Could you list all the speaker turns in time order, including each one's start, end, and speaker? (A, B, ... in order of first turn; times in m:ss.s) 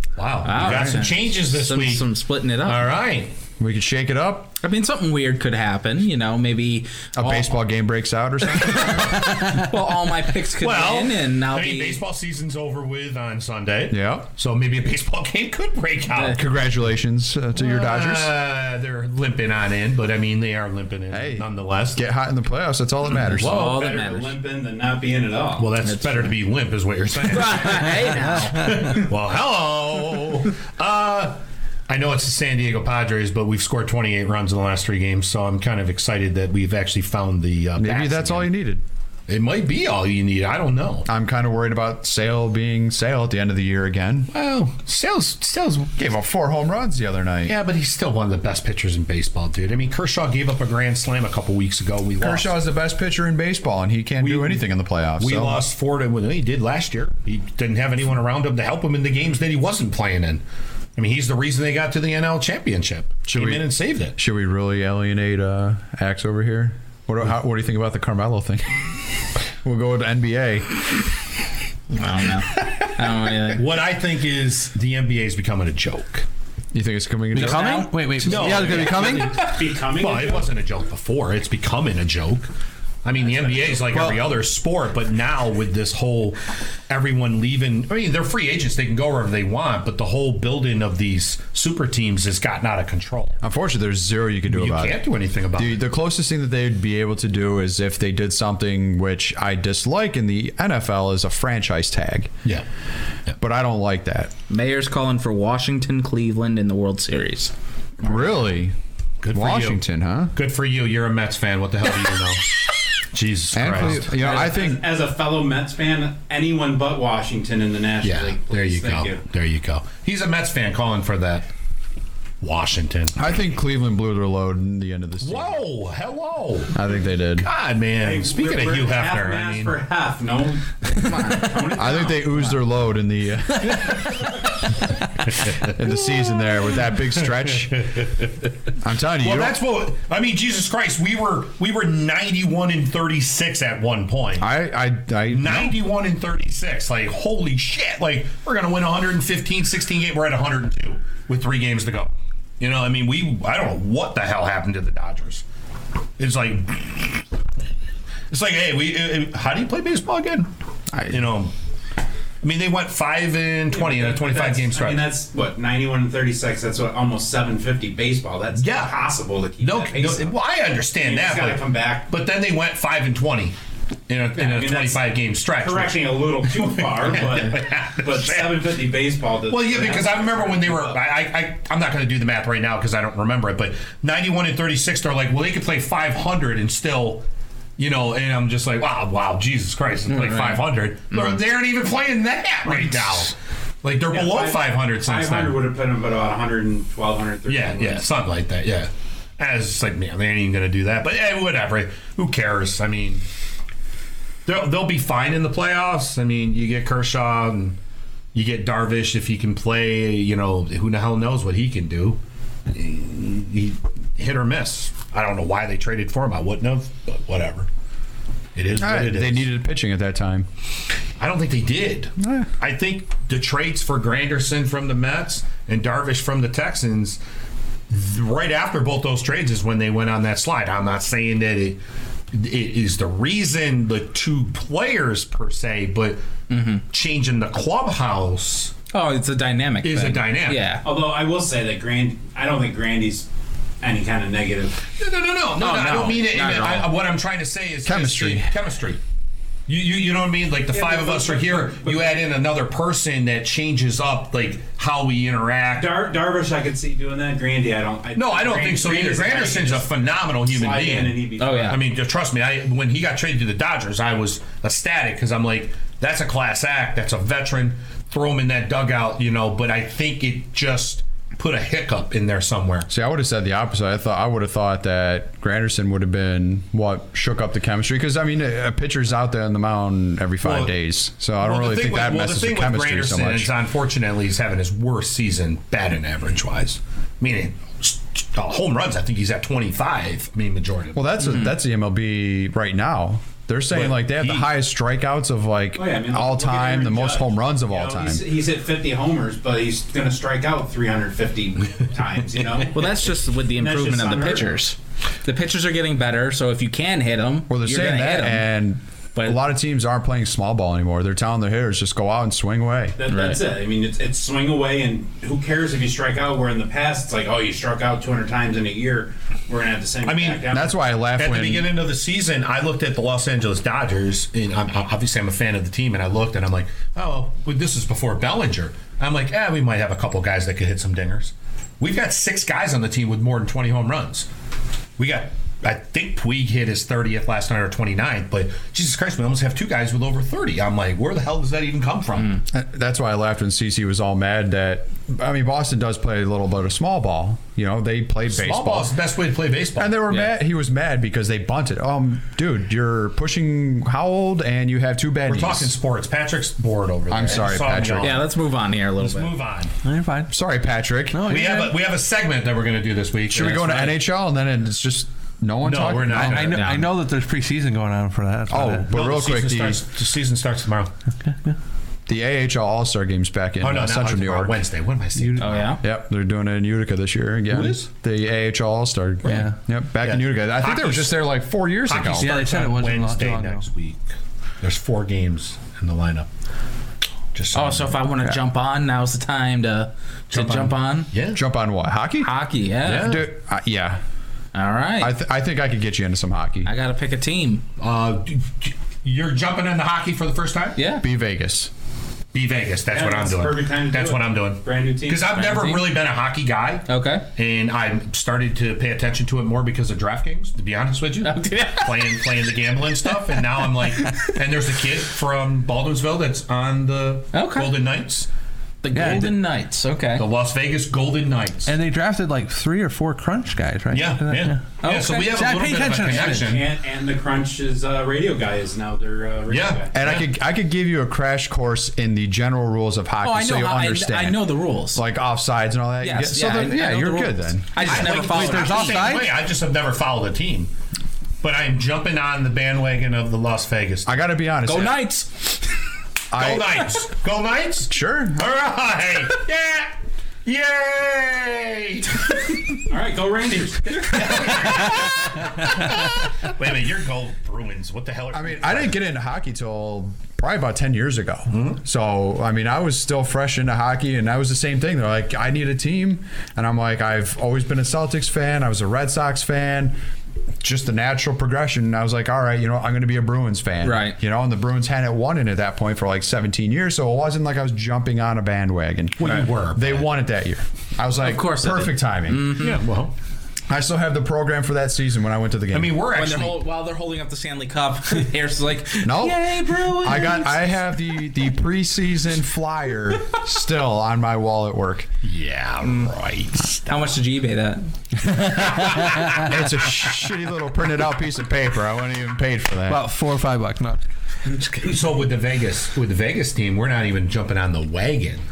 0:00.2-0:02.1 A
0:00.4-0:02.9 B
0:00.6-0:01.0 C
0:02.6-0:03.3 A
0:03.6-0:04.5 C
0:04.6-0:07.4 B
0:07.2-0:09.4 C
0:08.6-0:12.0 B
0:10.6-0:16.4 A
0:13.9-0:14.3 C
0:16.3-0:18.3 C
0:17.6-0:22.0 A
0:21.1-0:23.7 C
0:23.1-0:23.9 A
0:23.4-0:24.4 B
0:23.5-0:25.7 D
0:25.6-0:38.5 A
0:25.8-0:26.4 B
0:27.2-0:29.0 B
0:37.8-0:38.8 C
0:39.3-0:41.1 A
0:41.1-0:44.3 C
0:44.3-0:46.0 A
0:46.0-0:47.6 C
0:47.4-0:52.6 A
0:52.2-0:55.6 C
0:54.2-0:54.6 A
0:55.2-1:00.4 A
1:01.0-1:04.2 A
1:03.3-1:08.9 C
1:09.6-1:10.8 C
1:11.9-1:13.6 B
1:13.6-1:16.3 A
1:16.7-1:17.9 C
1:17.3-1:19.4 E
1:17.4-1:18.4 B
1:18.2-1:22.5 A
1:18.6-1:20.5 D
1:23.0-1:33.4 A
1:23.9-1:24.2 E
1:33.4-1:35.0 C
1:34.5-1:35.8 A
1:35.6-1:42.3 C
1:43.4-1:44.3 C
1:44.5-1:47.5 B
1:48.0-1:48.8 C
1:49.2-1:49.8 A
1:49.3-1:50.3 C
1:50.3-1:52.4 A
1:53.1-1:54.1 A
1:53.5-1:54.8 C
1:54.1-1:59.2 D
1:58.0-2:01.5 A
2:02.4-2:03.2 A
2:03.2-2:05.6 C
2:05.2-2:09.8 A
2:06.7-2:07.5 C
2:08.0-2:12.4 D
2:11.0-2:12.0 B
2:11.7-2:14.3 C
2:15.3-2:16.2 A
2:15.4-2:17.9 C
2:17.4-2:18.3 A
2:18.8-2:19.6 C
2:19.2-2:24.5 A
2:24.4-2:25.8 C
2:25.3-2:35.4 A
2:36.2-2:37.2 A
2:38.3-2:40.5 A
2:41.1-2:41.5 A
2:42.4-2:45.1 A
2:43.7-2:50.3 D
2:48.6-2:49.0 A
2:49.6-2:53.6 A
2:51.0-2:52.1 D
2:54.1-2:58.7 A
2:54.4-2:55.1 D
2:55.6-3:01.0 D
2:59.5-3:07.2 A
3:07.8-3:15.6 A
3:10.1-3:11.4 B
3:14.1-3:18.1 D
3:17.5-3:23.2 A
3:24.4-3:27.8 A
3:28.3-3:37.7 A
3:38.6-3:39.5 A
3:38.8-3:40.5 C
3:41.2-3:47.2 A
3:42.2-3:42.5 C
3:47.9-3:51.8 A
3:52.3-3:56.2 A
3:56.5-3:56.8 B
3:56.9-3:58.7 A
3:58.9-4:00.8 B
3:59.8-4:00.7 A
4:00.8-4:03.3 D
4:03.8-4:04.9 D
4:05.0-4:09.0 A
4:05.6-4:06.9 B
4:07.8-4:08.5 C
4:09.7-4:16.0 A
4:10.7-4:12.3 D
4:15.8-4:19.9 D
4:18.2-4:32.9 A
4:20.4-4:21.8 D
4:21.4-4:21.8 B
4:32.9-4:43.5 C
4:40.4-4:40.7 A
4:41.4-4:51.0 A
4:51.0-4:58.2 C
4:53.7-4:54.5 A
4:55.8-5:03.0 D
5:02.7-5:08.4 B
5:03.5-5:04.5 D
5:07.5-5:13.0 C
5:13.0-5:20.8 D
5:13.1-5:13.4 B
5:20.0-5:20.4 A
5:20.5-5:21.8 C
5:21.1-5:34.3 A
5:35.0-5:42.4 A
5:42.5-5:48.9 C
5:48.3-5:50.0 A
5:49.8-5:55.7 C
5:55.3-5:58.2 A
5:57.1-5:58.2 C
5:58.0-5:59.3 B
5:59.0-5:59.7 A
5:59.8-6:00.3 E
6:00.3-6:01.4 C
6:01.1-6:01.8 E
6:01.3-6:04.0 A
6:03.3-6:06.5 C
6:05.6-6:06.8 A
6:06.1-6:08.9 E
6:06.5-6:06.9 B
6:08.5-6:09.8 C
6:08.9-6:10.9 A
6:11.2-6:11.6 E
6:12.1-6:14.6 C
6:13.6-6:15.8 A
6:15.2-6:15.5 E
6:15.4-6:15.8 B
6:15.8-6:22.3 C
6:17.5-6:17.9 A
6:19.2-6:21.3 A
6:19.3-6:19.6 E
6:21.9-6:24.0 A
6:22.2-6:23.6 E
6:24.6-6:26.3 A
6:27.3-6:28.0 A
6:27.5-6:31.1 B
6:30.3-6:31.4 A
6:31.3-6:32.3 C
6:32.2-6:33.2 B
6:32.8-6:33.3 A
6:33.0-6:34.0 C
6:34.5-6:35.1 B
6:35.0-6:36.7 C
6:36.6-6:37.6 B
6:37.8-6:40.8 A
6:40.8-6:41.0 B
6:41.0-6:41.7 C
6:42.3-6:58.3 A
6:42.9-6:45.5 D
6:45.3-6:46.0 B
6:46.9-6:47.3 B
6:51.2-6:52.2 B
6:53.3-6:54.3 B
6:57.3-6:57.8 B
6:58.8-7:00.2 B
6:58.9-6:59.3 E
6:58.9-6:59.3 A
7:00.2-7:01.7 A
7:01.7-7:04.6 E
7:03.9-7:06.7 A
7:04.8-7:05.4 B
7:05.3-7:06.6 E
7:06.1-7:09.9 D
7:09.5-7:10.3 A
7:09.9-7:17.8 C
7:13.2-7:15.0 B
7:16.0-7:19.2 B
7:17.8-7:20.7 A
7:17.8-7:19.3 E
7:21.4-7:24.1 A
7:24.1-7:25.0 C
7:24.6-7:25.6 B
7:26.3-7:26.8 C
7:26.3-7:29.9 A
7:27.9-7:28.5 C
7:30.4-7:32.4 A
7:32.9-7:35.0 D
7:34.0-7:39.0 A
7:38.3-7:50.0 C
7:41.5-7:41.8 A
7:50.6-8:02.6 C
7:53.8-7:54.2 B
7:59.2-8:00.1 A
8:01.2-8:02.8 B
8:02.6-8:03.1 A
8:03.7-8:06.0 C
8:05.7-8:06.6 A
8:06.1-8:10.7 B
8:09.0-8:15.1 C
8:15.2-8:17.2 A
8:15.8-8:16.1 B
8:16.9-8:19.3 B
8:18.6-8:19.4 A
8:19.3-8:23.0 C
8:22.9-8:24.0 E
8:24.8-8:28.4 A